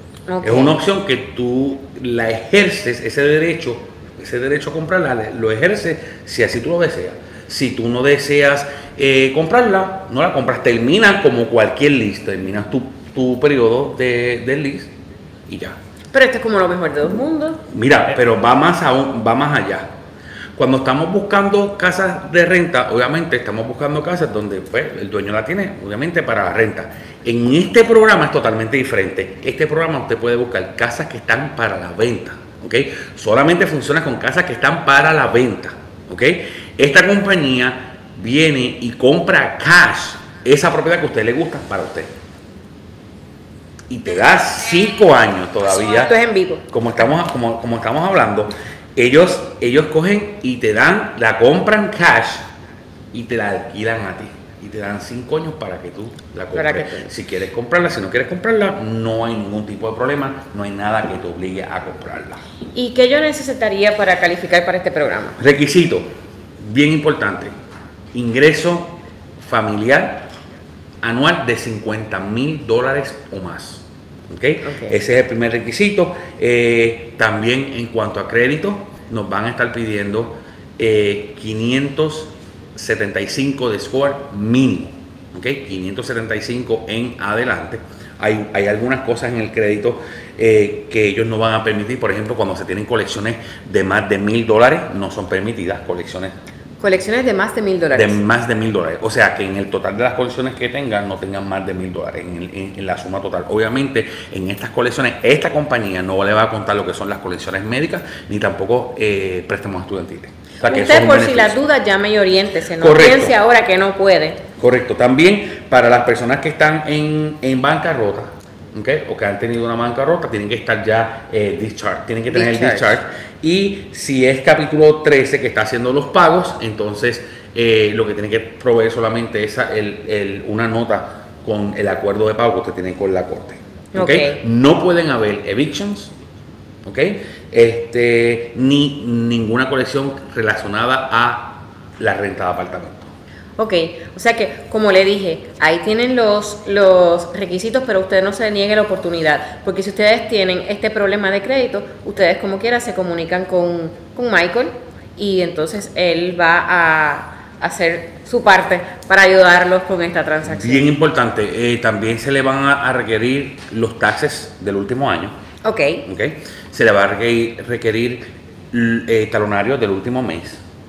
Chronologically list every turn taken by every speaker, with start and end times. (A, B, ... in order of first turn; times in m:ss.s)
0:00.3-0:00.8 A
0:00.4-0:14.9 B
0:15.5-0:15.8 B
0:16.1-0:17.6 A
0:17.7-0:19.9 B
0:20.6-0:42.1 B
0:43.9-0:46.2 B
0:45.6-0:46.6 A
0:46.7-0:52.5 B
0:53.1-1:02.4 B
0:56.5-0:57.1 A
1:02.7-1:05.4 A
1:05.4-1:07.5 B
1:08.1-1:10.3 B
1:11.0-1:36.4 B
1:14.6-1:15.0 A
1:36.8-1:38.2 A
1:37.9-1:51.6 B
1:50.6-1:54.4 A
1:52.8-1:53.4 B
1:54.6-2:16.1 B
2:02.3-2:03.0 A
2:13.9-2:14.4 A
2:16.8-2:23.1 B
2:23.6-2:40.9 A
2:40.4-2:45.4 B
2:45.6-2:46.0 A
2:46.0-2:50.6 B